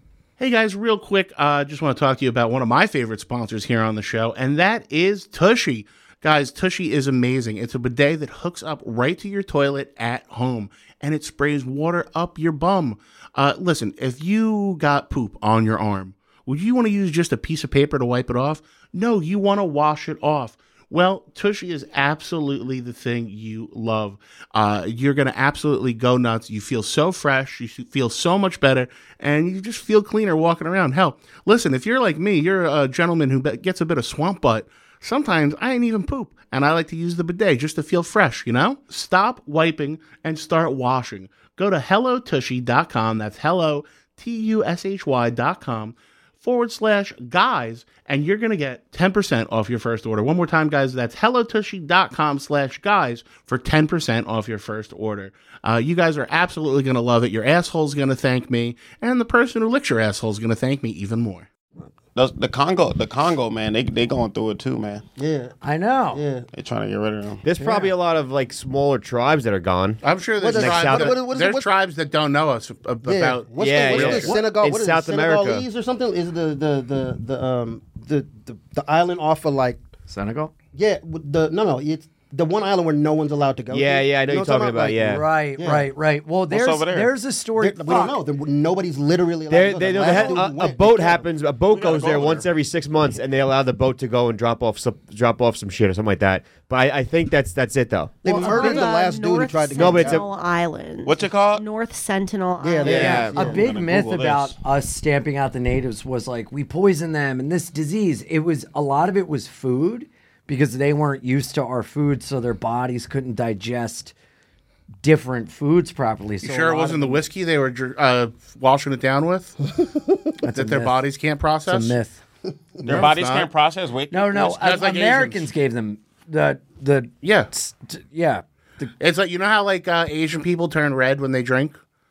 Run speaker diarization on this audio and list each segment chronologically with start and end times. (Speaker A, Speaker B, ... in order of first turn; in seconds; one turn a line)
Speaker A: 0.4-61.5
Speaker B: 62.1-65.0
Speaker C: 65.2-65.6
Speaker D: 65.6-66.2
Speaker C: 66.1-66.5
Speaker B: 66.5-67.4
Speaker E: 67.4-71.2
Speaker D: 67.6-67.9
Speaker A: 70.0-74.4
Speaker C: 70.4-71.7
Speaker C: 73.0-79.8
Speaker E: 73.6-75.7
Speaker D: 80.1-80.5
Speaker C: 80.7-85.9
Speaker E: 83.7-85.2
Speaker D: 85.1-88.2
Speaker B: 86.5-87.1
Speaker C: 87.6-91.3
Speaker E: 89.5-98.2
Speaker F: 90.1-90.4
Speaker B: 91.7-92.5
Speaker C: 98.2-100.3
Speaker D: 98.2-98.9
Speaker F: 98.3-103.2
Speaker E: 99.8-100.2
Speaker B: 101.0-101.7
Speaker C: 102.6-103.7
Speaker B: 102.8-104.5
Speaker E: 102.8-103.4
Speaker D: 102.9-114.1
Speaker D: 115.0-117.2
Speaker A: 116.4-119.6
Speaker D: 120.4-121.0
Speaker A: 120.5-122.0
Speaker D: 121.7-122.2
Speaker A: 122.8-123.5
Speaker B: 122.8-124.6
Speaker D: 124.1-128.9
Speaker A: 124.4-125.5
Speaker A: 127.2-127.5
Speaker A: 129.0-131.8